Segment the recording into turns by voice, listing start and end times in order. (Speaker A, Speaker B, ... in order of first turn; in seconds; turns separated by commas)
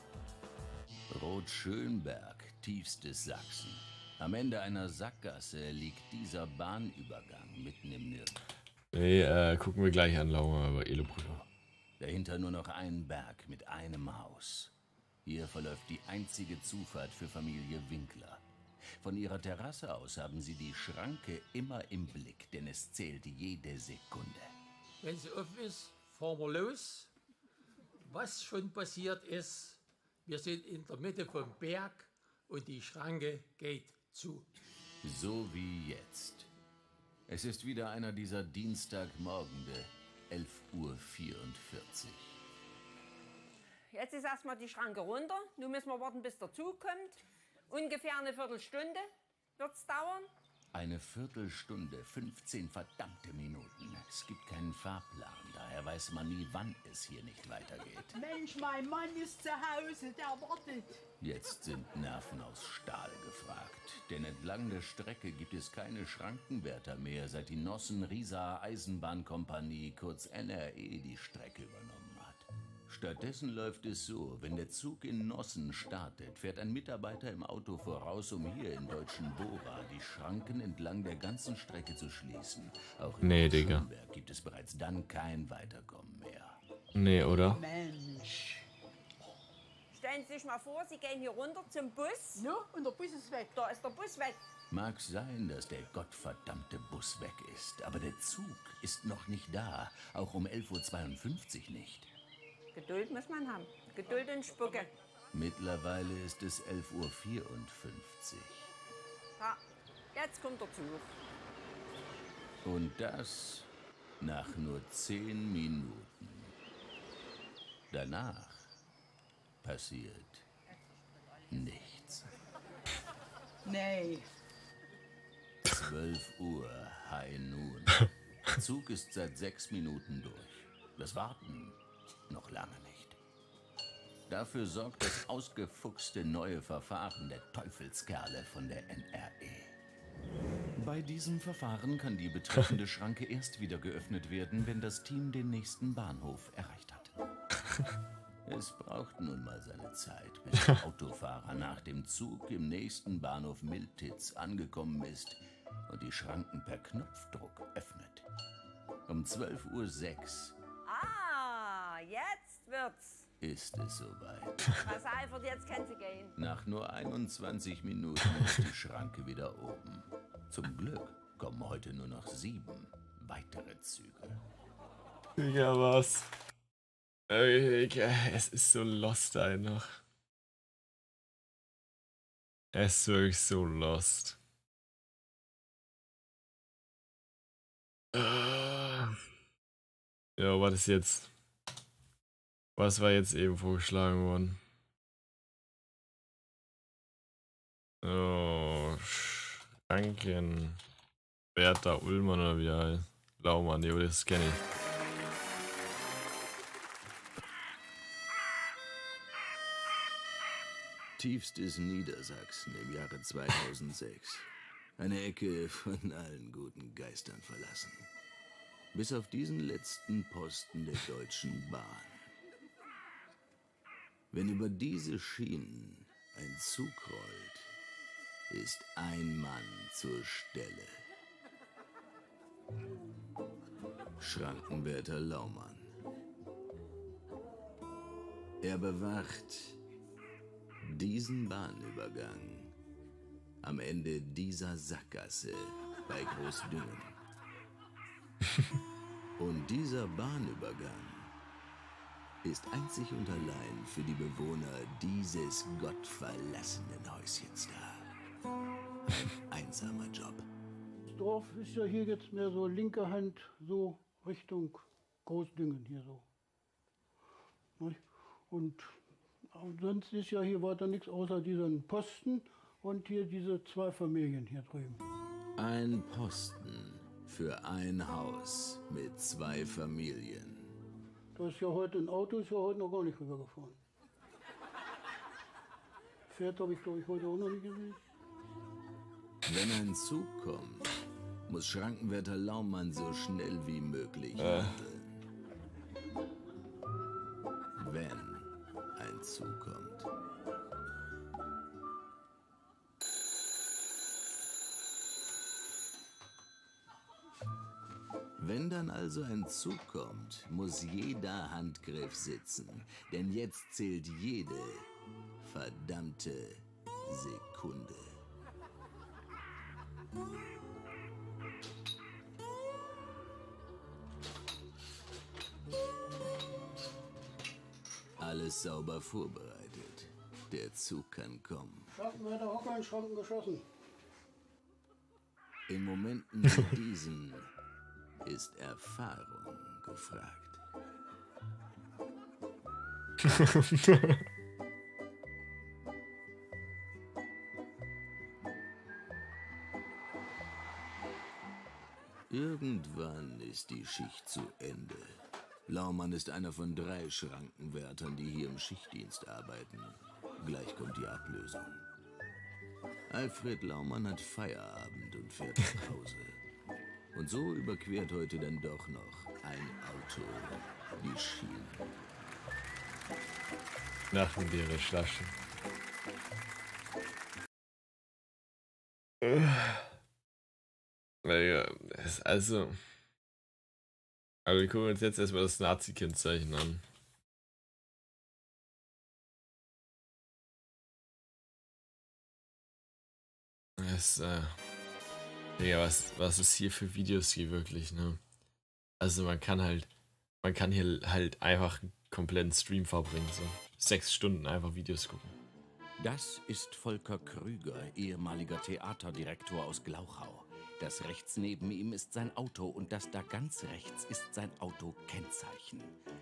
Speaker A: 1.1-8.4, Speaker B: 8.9-11.4, Speaker A: 12.0-14.7, Speaker A: 15.2-18.4, Speaker A: 19.0-24.5, Speaker C: 25.0-27.1, Speaker C: 28.1-34.5, Speaker A: 35.0-36.5, Speaker A: 37.3-42.4, Speaker D: 43.9-49.1, Speaker D: 49.6-50.3, Speaker A: 50.7-58.1, Speaker E: 58.2-61.0, Speaker A: 61.2-86.6, Speaker B: 83.2-83.9, Speaker B: 86.9-87.6, Speaker E: 87.5-88.6, Speaker D: 89.9-92.4, Speaker E: 92.4-93.5, Speaker D: 93.5-94.4, Speaker A: 94.7-102.1, Speaker D: 102.8-104.9, Speaker A: 105.3-108.7, Speaker D: 110.2-111.1, Speaker A: 112.7-116.5, Speaker A: 117.9-118.7, Speaker A: 119.6-120.5, Speaker A: 121.5-122.3, Speaker E: 123.7-124.3, Speaker A: 125.7-133.2, Speaker A: 134.3-139.8, Speaker A: 140.8-147.2, Speaker A: 148.5-158.3, Speaker A: 159.1-160.6, Speaker D: 160.9-163.2, Speaker A: 163.4-164.8, Speaker D: 164.8-166.3, Speaker A: 166.4-174.4, Speaker B: 175.4-176.3, Speaker B: 177.3-179.9, Speaker B: 182.7-184.4, Speaker B: 188.1-189.2, Speaker B: 190.4-191.3, Speaker B: 192.8-194.6, Speaker B: 198.0-200.8, Speaker B: 201.6-204.6, Speaker A: 211.2-218.1, Speaker A: 218.9-222.2, Speaker A: 224.3-227.7, Speaker A: 228.5-230.9, Speaker A: 234.2-235.9, Speaker A: 238.6-239.8, Speaker A: 240.8-242.8, Speaker A: 243.6-247.2, Speaker A: 249.4-251.3, Speaker A: 252.4-258.1, Speaker A: 259.1-260.4, Speaker F: 261.1-266.3, Speaker F: 267.8-269.0, Speaker F: 269.5-275.0, Speaker A: 275.6-280.7, Speaker F: 281.4-283.8, Speaker F: 286.3-288.0, Speaker A: 289.5-290.9, Speaker A: 291.5-295.2, Speaker B: 294.4-294.8, Speaker A: 297.8-300.1, Speaker A: 308.4-314.9, Speaker A: 315.4-318.0, Speaker A: 328.2-331.9, Speaker F: 331.9-333.7, Speaker A: 335.7-337.5, Speaker A: 338.2-340.6, Speaker A: 352.3-355.1, Speaker A: 355.7-361.8, Speaker A: 363.1-366.4, Speaker A: 367.1-371.8, Speaker B: 374.1-375.3, Speaker B: 379.2-379.9, Speaker B: 381.2-382.8, Speaker B: 384.4-386.8, Speaker B: 393.8-394.6, Speaker B: 395.6-398.2, Speaker B: 399.0-399.9, Speaker B: 400.4-405.4, Speaker A: 406.0-416.0